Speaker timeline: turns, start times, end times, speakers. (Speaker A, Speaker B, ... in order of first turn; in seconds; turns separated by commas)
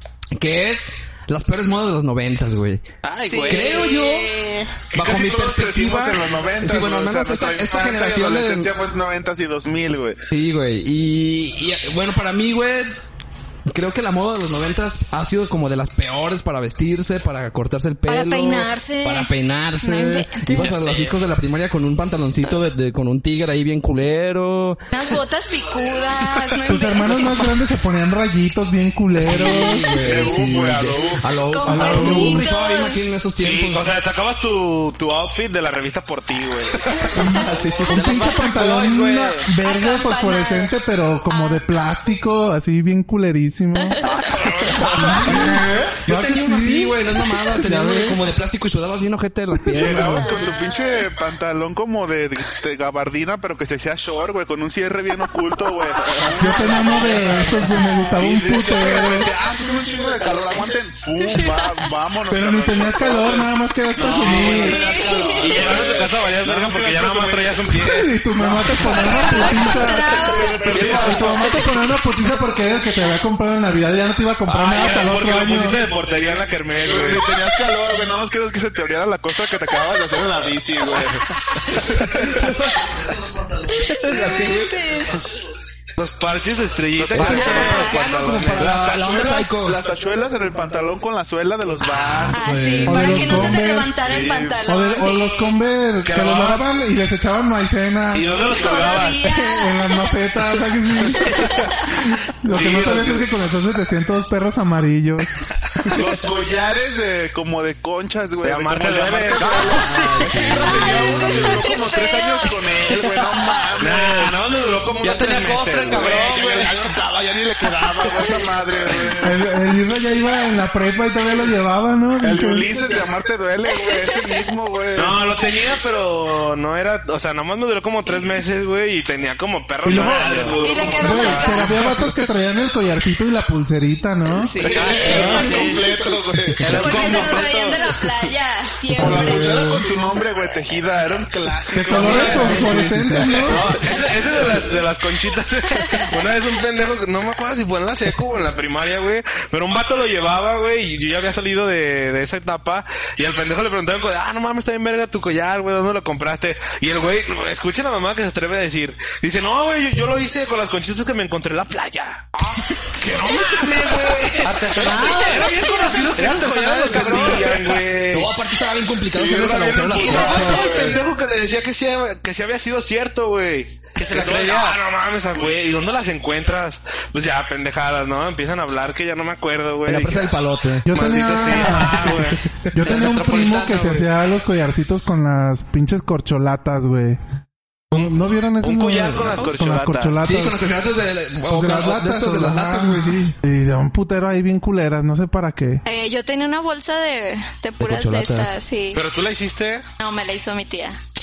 Speaker A: 0.3-2.8, Speaker B: 3.0-3.9, Speaker C: 3.3-4.8, Speaker A: 3.5-4.3, Speaker D: 4.9-10.2, Speaker A: 4.9-8.7, Speaker A: 10.3-12.9, Speaker A: 13.7-24.8, Speaker C: 18.1-20.6, Speaker E: 20.5-21.1, Speaker C: 24.9-27.6, Speaker F: 26.6-29.9, Speaker A: 29.2-33.8, Speaker D: 30.0-31.3, Speaker C: 31.5-33.0, Speaker F: 31.8-32.4, Speaker E: 33.4-37.0, Speaker C: 37.1-37.4, Speaker F: 37.1-44.0, Speaker A: 37.3-38.1, Speaker B: 37.7-39.5, Speaker C: 39.6-40.7, Speaker C: 41.3-41.6, Speaker C: 43.8-44.1, Speaker E: 44.0-45.3, Speaker F: 44.9-47.0, Speaker A: 45.0-50.4, Speaker F: 47.5-48.2, Speaker D: 49.7-63.5, Speaker F: 56.4-59.3, Speaker C: 56.7-58.2, Speaker C: 61.2-61.8, Speaker F: 62.3-64.9, Speaker B: 64.0-66.0, Speaker D: 64.0-67.6, Speaker C: 64.4-65.6, Speaker E: 65.4-68.1, Speaker F: 67.7-75.8, Speaker D: 68.3-71.6, Speaker C: 68.8-71.8, Speaker E: 70.7-71.2, Speaker E: 74.5-77.3, Speaker D: 76.8-82.4, Speaker A: 82.0-82.9, Speaker C: 83.7-85.2, Speaker A: 83.7-84.8, Speaker E: 86.0-88.9, Speaker D: 87.0-87.9, Speaker A: 87.1-89.8, Speaker B: 87.3-87.8, Speaker C: 87.4-87.9, Speaker D: 88.5-94.6, Speaker C: 92.3-95.5, Speaker F: 92.3-93.9, Speaker A: 92.5-93.4, Speaker F: 94.7-98.4, Speaker E: 96.0-96.6, Speaker E: 98.1-99.2, Speaker C: 98.4-101.8, Speaker F: 99.0-105.3, Speaker E: 102.5-103.2, Speaker D: 105.8-114.4, Speaker E: 108.4-109.7, Speaker B: 109.3-110.8, Speaker A: 109.8-111.7, Speaker C: 110.6-113.7, Speaker E: 113.8-116.7, Speaker B: 115.0-116.9, Speaker D: 115.9-119.4, Speaker F: 119.2-122.7, Speaker D: 122.2-125.2, Speaker C: 123.7-124.4, Speaker E: 124.9-131.9, Speaker D: 129.8-131.9, Speaker F: 129.8-130.3, Speaker C: 130.6-131.7, Speaker F: 130.9-134.5, Speaker C: 134.3-135.8, Speaker B: 134.6-136.1, Speaker D: 134.6-137.8, Speaker B: 136.6-137.7, Speaker C: 136.7-139.7, Speaker E: 136.8-137.3, Speaker D: 138.9-142.8, Speaker F: 138.9-139.6, Speaker A: 139.1-139.7, Speaker F: 141.7-143.7, Speaker A: 141.9-143.8, Speaker E: 142.0-142.5, Speaker E: 143.4-162.3, Speaker E: 162.9-168.3, Speaker B: 164.4-167.8, Speaker C: 165.2-166.0, Speaker A: 166.9-167.2, Speaker A: 168.0-170.9, Speaker E: 169.1-180.3, Speaker D: 169.9-171.0, Speaker B: 173.9-174.8, Speaker A: 179.8-180.9, Speaker F: 180.8-187.2, Speaker E: 180.9-183.1, Speaker B: 182.8-184.1, Speaker F: 187.9-190.6, Speaker E: 187.9-190.2, Speaker A: 190.2-193.3, Speaker F: 191.5-195.8, Speaker C: 195.8-199.0, Speaker A: 197.8-198.5, Speaker E: 198.9-199.8, Speaker C: 200.0-201.0